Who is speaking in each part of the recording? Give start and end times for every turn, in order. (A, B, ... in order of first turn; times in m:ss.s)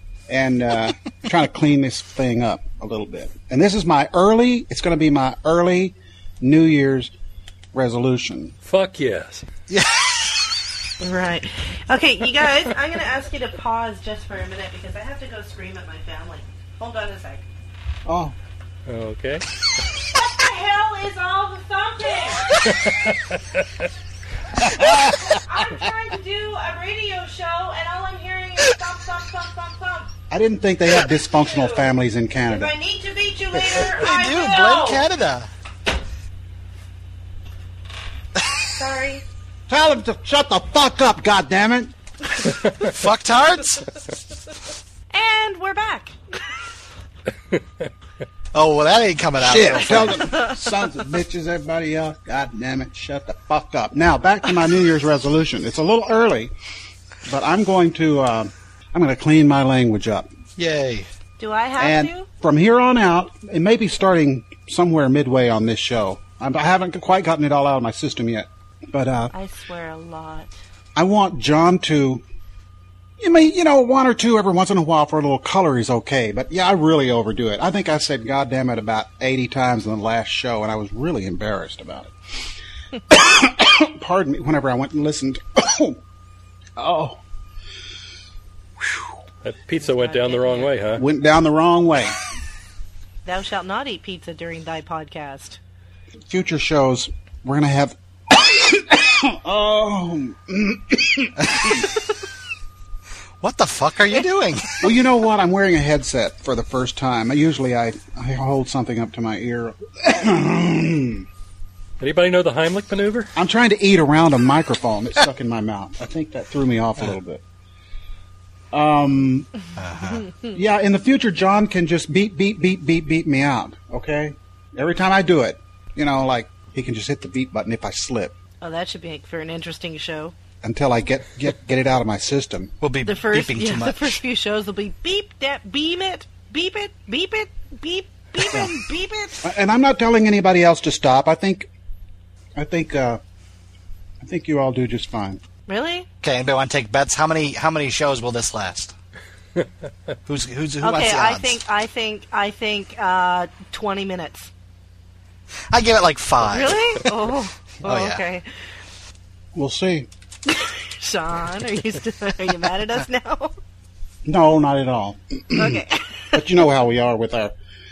0:00.3-0:07.1 A
0:07.7-0:08.6 A
0:08.6-0:09.4 B
0:09.7-0:10.5 C
0:11.0-0:17.4 D
0:18.0-0:18.4 A
0:18.9-0:19.4 B
0:20.1-0:22.6 D
0:22.7-0:23.1 B
0:24.8-0:25.3 C
0:24.8-0:30.1 D
0:30.3-0:32.7 A
0:31.4-0:31.9 D
0:32.5-0:35.0 D
0:33.7-0:35.5 C
0:38.6-0:39.2 D
0:39.7-0:41.9 A
0:42.7-0:43.9 C
0:45.1-0:46.2 D
0:48.5-0:50.3 C
0:49.4-0:56.5 A
0:57.3-1:00.3 A
1:00.6-1:01.1 C
1:01.4-1:02.3 D
1:01.8-1:09.3 A
1:09.3-1:10.5 D
1:11.0-1:12.2 A
1:13.2-1:22.2 A
1:23.1-1:26.0 A
1:26.8-1:27.2 A
1:28.8-1:29.1 A
1:29.4-1:31.0 B
1:29.8-1:30.7 D
1:31.0-1:32.2 A
1:33.2-1:35.6 D
1:36.3-1:41.8 A
1:41.5-1:41.8 C
1:43.4-1:44.9 C
1:44.8-1:51.2 A
1:52.0-1:53.3 B
1:53.4-1:57.4 A
1:58.7-1:59.5 A
1:59.8-2:00.3 C
2:00.5-2:08.4 A
2:08.6-2:10.4 D
2:10.6-2:12.7 A
2:12.8-2:14.2 C
2:13.0-2:19.5 D
2:18.4-2:18.7 A
2:19.4-2:21.7 A
2:22.6-2:23.2 A
2:24.2-2:25.4 A
2:25.7-2:26.1 D
2:26.2-2:28.9 C
2:30.3-2:31.6 C
2:30.8-2:34.5 D
2:35.7-2:37.0 C
2:36.5-2:38.5 D
2:37.8-2:38.2 C
2:39.5-2:40.1 A
2:40.5-2:43.6 D
2:44.2-2:45.8 A
2:45.6-2:46.4 D
2:46.3-2:47.5 A